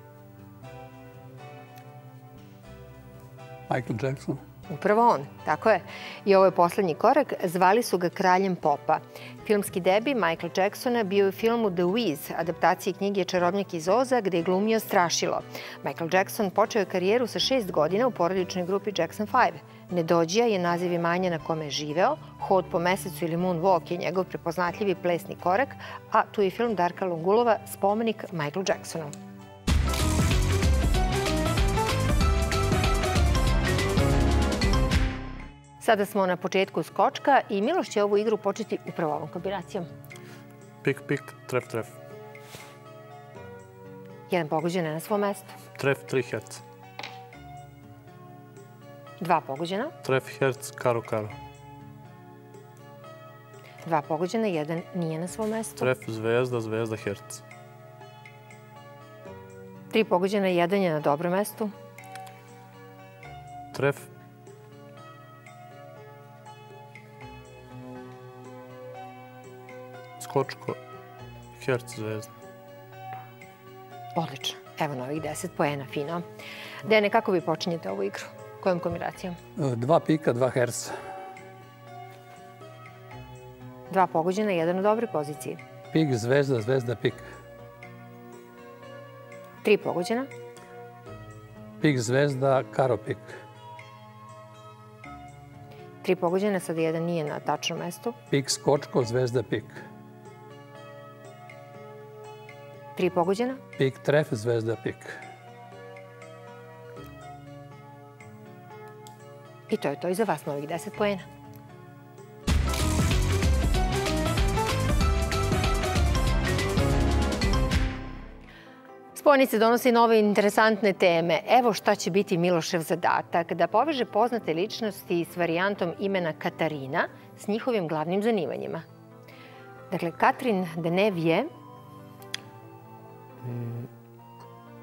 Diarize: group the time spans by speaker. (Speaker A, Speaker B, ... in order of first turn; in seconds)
Speaker A: 3.7-4.4, 79.5-81.0, 85.9-87.3, 91.8-93.4, 98.3-99.8, 103.8-105.2
Speaker B: 4.7-29.1, 35.8-39.9, 44.3-45.5, 49.2-49.9, 53.8-55.9, 59.9-61.7, 74.2-76.2, 76.8-79.4, 83.9-85.6, 89.6-90.3, 96.0-98.2, 103.0-103.6, 109.7-111.2, 119.1-128.8, 129.9-131.5
Speaker C: 40.8-42.0, 45.8-46.6, 50.0-51.3, 55.8-57.4, 63.7-64.1, 70.2-70.8, 71.5-72.3, 133.4-133.9